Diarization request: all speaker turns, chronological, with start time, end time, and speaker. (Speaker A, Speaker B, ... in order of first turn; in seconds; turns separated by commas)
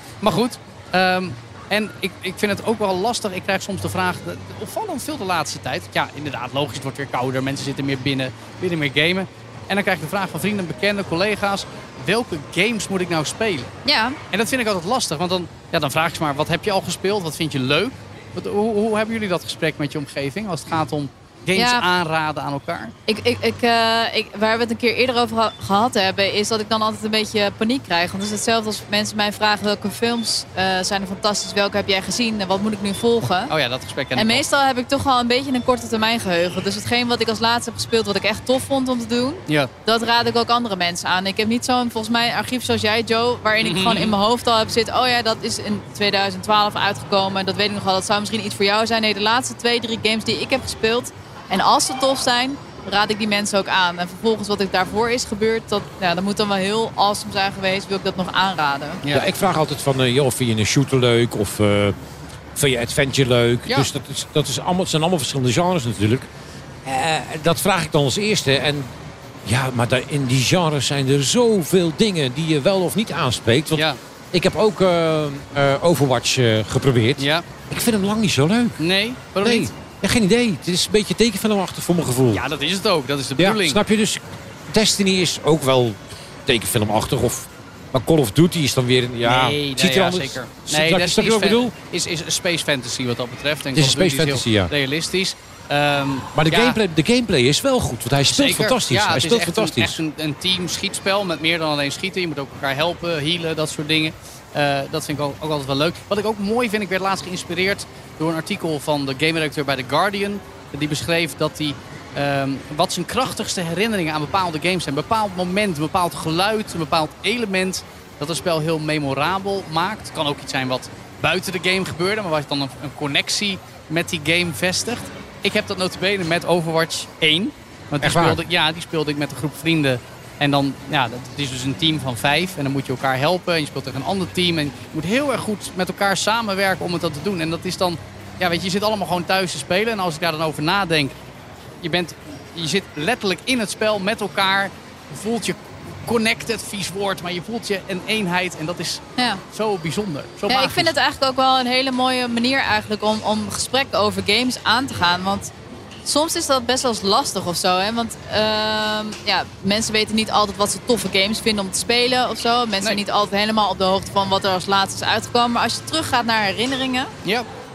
Speaker A: 0.2-13.7, Speaker B: 13.8-14.2, Speaker A: 14.3-22.9, Speaker B: 21.6-21.9, Speaker B: 23.1-33.5, Speaker A: 33.5-34.5, Speaker B: 34.1-59.0, Speaker A: 43.6-44.2, Speaker C: 59.1-62.0, Speaker C: 62.6-66.3, Speaker C: 66.8-68.9, Speaker C: 69.5-78.8, Speaker A: 73.7-74.0, Speaker A: 77.2-77.5, Speaker A: 78.8-79.7, Speaker C: 79.4-82.5, Speaker A: 82.3-83.8, Speaker C: 83.4-91.7, Speaker A: 89.2-96.8, Speaker C: 93.8-94.7, Speaker C: 96.3-100.0, Speaker A: 98.3-141.2, Speaker C: 128.0-128.4, Speaker A: 141.8-150.9, Speaker B: 150.5-155.5, Speaker B: 156.1-167.1